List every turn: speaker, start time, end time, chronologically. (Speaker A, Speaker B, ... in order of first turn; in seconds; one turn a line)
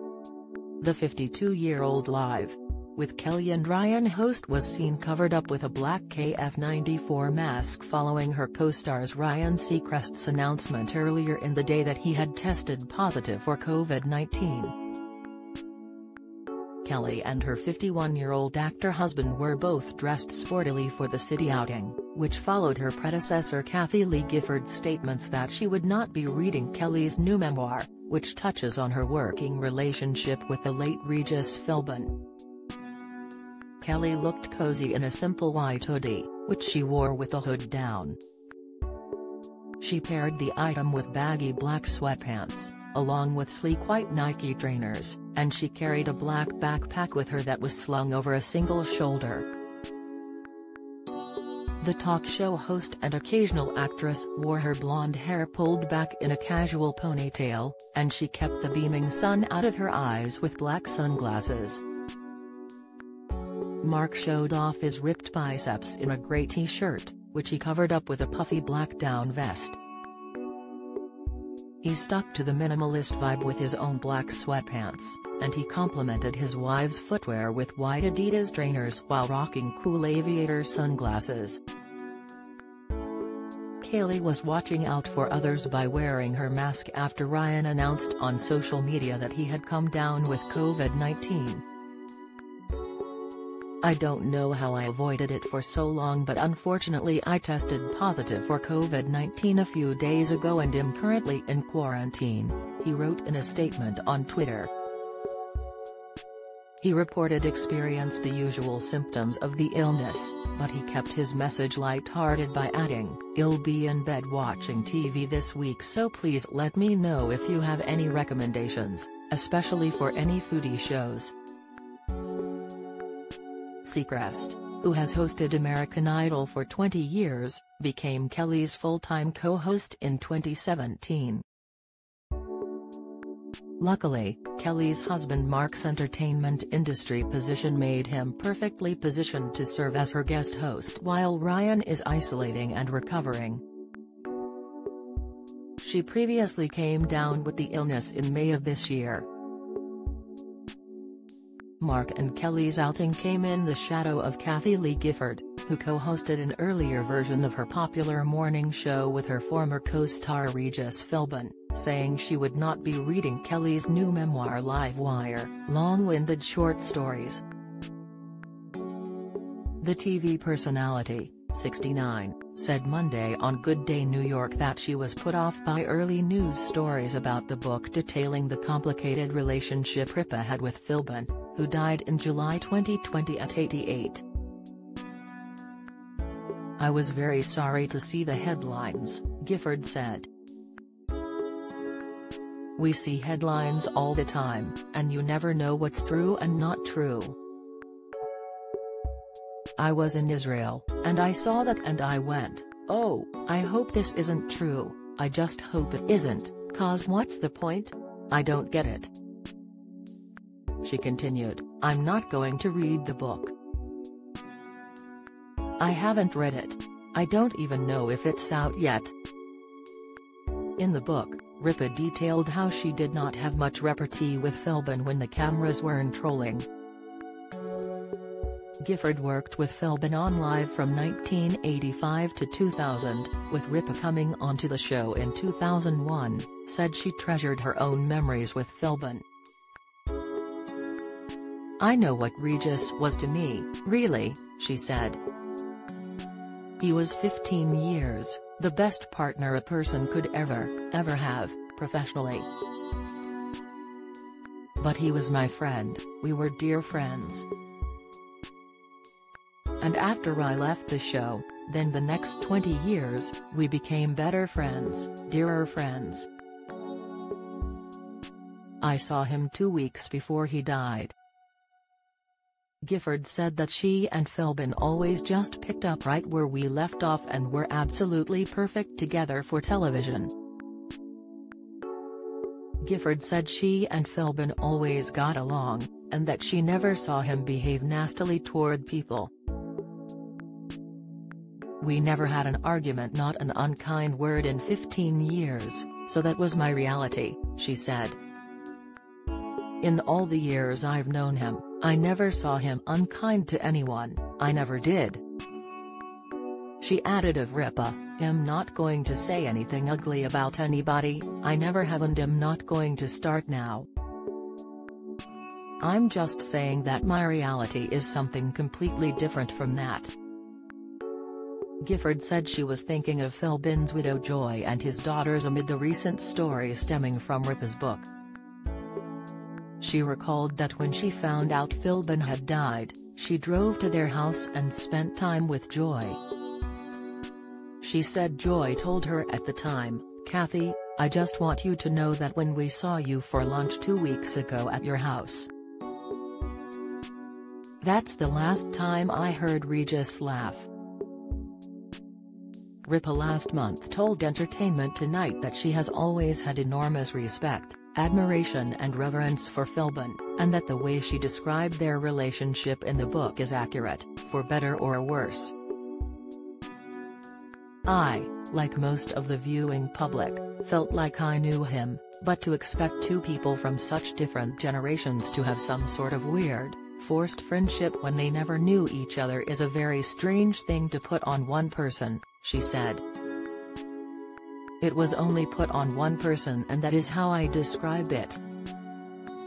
Speaker A: 0.8-14.8
Speaker A: 16.8-32.2
Speaker A: 33.8-38.2
Speaker A: 39.8-49.5
Speaker A: 51.8-61.8
Speaker A: 63.8-69.8
Speaker A: 71.8-81.6
Speaker A: 83.8-91.6
Speaker A: 93.8-104.7
Speaker A: 106.8-121.3
Speaker A: 123.8-131.4
Speaker A: 133.8-143.6
Speaker A: 145.8-149.3
Speaker A: 151.8-167.4
Speaker A: 169.8-184.2
Speaker A: 186.8-190.3
Speaker A: 192.8-197.4
Speaker A: 199.8-209.1
Speaker A: 210.8-213.5
Speaker A: 215.8-219.1
Speaker A: 220.8-226.7
Speaker A: 228.8-239.2
Speaker A: 241.8-245.2
Speaker A: 246.8-252.5
Speaker A: 254.8-257.5
Speaker A: 259.8-266.3
Speaker A: 268.8-271.1
Speaker A: 272.8-280.3
Speaker A: 282.8-289.3
Speaker A: 291.8-298.2
Speaker A: 299.8-305.2
Speaker A: 306.8-313.9
Speaker A: 315.8-320.1
Speaker A: 321.8-328.1
Speaker A: 329.8-336.2
Speaker A: 337.8-345.5
Speaker A: 347.8-350.7
Speaker A: 352.9-365.6
Speaker A: 367.9-383.0
Speaker A: 384.8-388.4